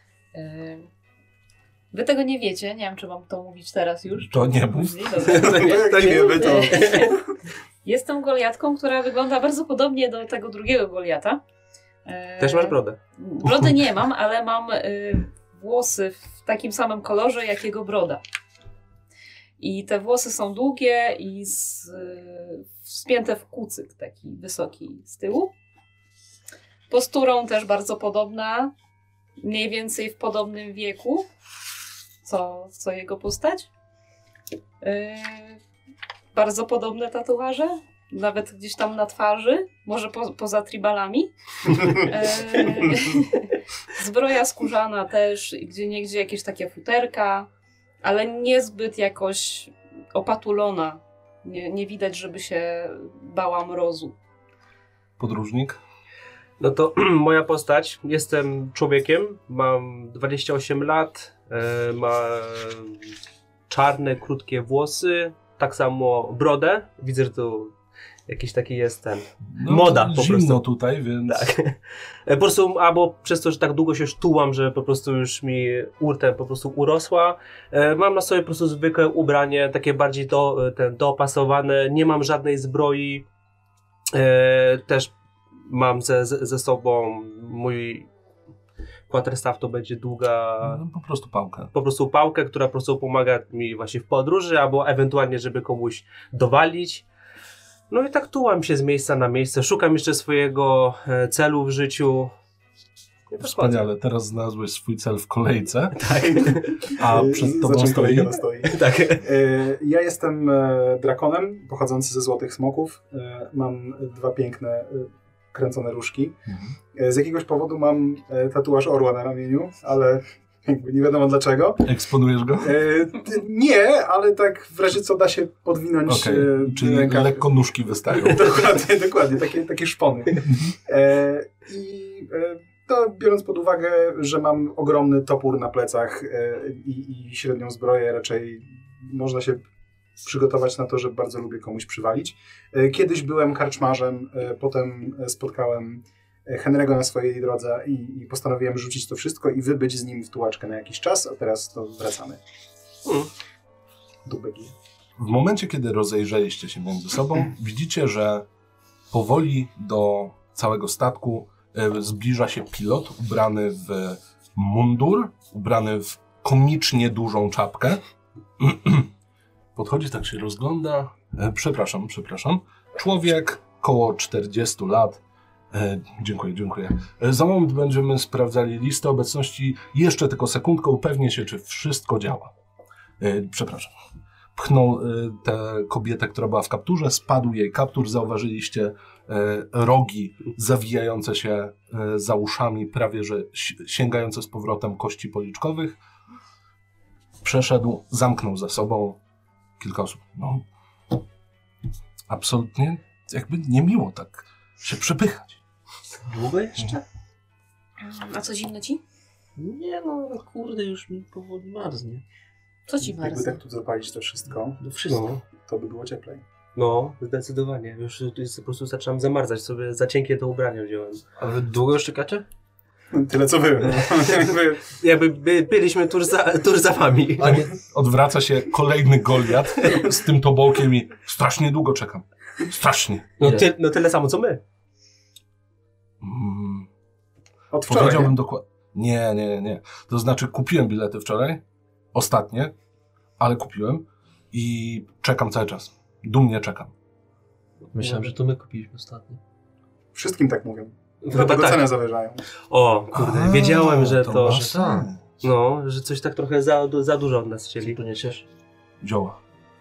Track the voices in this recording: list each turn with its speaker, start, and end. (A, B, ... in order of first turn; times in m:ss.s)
0:00.3-0:00.9 A
0:01.9-0:07.2 A
0:04.2-0:05.1 B
0:05.2-0:07.1 C
0:05.2-0:07.2 D
0:07.8-0:11.4 A
0:12.0-0:18.2 A
0:12.4-0:13.0 C
0:13.4-0:13.7 B
0:19.6-0:25.5 A
0:26.9-0:28.7 A
0:29.4-0:31.2 A
0:32.2-0:33.7 A
0:34.8-0:35.6 A
0:36.3-0:47.5 A
0:48.0-0:54.1 A
0:55.2-0:55.8 B
0:56.6-1:03.0 C
1:03.7-1:07.7 C
1:08.3-1:10.6 C
1:09.5-1:11.5 B
1:11.3-1:23.2 C
1:24.1-1:25.1 C
1:25.6-1:28.1 C
1:29.1-1:30.8 C
1:30.6-1:31.7 B
1:31.7-1:37.0 C
1:37.9-1:42.3 C
1:43.3-1:43.8 C
1:43.4-1:46.0 B
1:46.0-1:47.0 C
1:46.4-1:56.4 D
1:46.9-1:48.4 B
1:48.6-1:49.2 C
1:56.5-1:56.7 B
1:56.9-2:01.9 D
2:01.8-2:02.8 B
2:02.6-2:07.4 D
2:06.0-2:08.7 B
2:08.2-2:19.6 D
2:10.4-2:10.7 B
2:20.2-2:32.4 D
2:33.0-2:33.3 C
2:34.2-2:34.7 D
2:35.2-2:38.4 B
2:39.1-2:48.0 B
2:48.6-2:49.1 B
2:49.8-3:02.5 B
3:03.2-3:03.9 B
3:04.5-3:16.0 B
3:17.4-3:19.2 B
3:19.8-3:20.6 B
3:22.3-3:25.6 B
3:26.2-3:27.0 E
3:28.0-3:29.0 A
3:29.6-3:32.2 E
3:32.9-3:33.6 A
3:33.0-3:34.8 D
3:34.8-3:35.4 E
3:35.1-3:35.4 C
3:35.6-3:36.4 D
3:36.7-3:41.2 C
3:41.4-3:42.4 E
3:43.1-3:44.9 D
3:44.9-3:47.6 C
3:47.4-3:47.7 E
3:47.4-3:53.3 B
3:53.4-3:54.6 C
3:53.4-3:53.7 E
3:56.2-3:56.9 B
3:57.7-3:58.3 D
3:57.8-4:01.6 B
4:02.1-4:02.7 B
4:03.4-4:06.9 B
4:07.9-4:09.4 E
4:08.0-4:08.2 C
4:10.1-4:12.4 D
4:11.2-4:11.9 C
4:12.7-4:14.7 C
4:13.1-4:15.4 B
4:14.3-4:15.1 E
4:15.4-4:18.0 C
4:17.8-4:18.4 E
4:19.0-4:19.4 B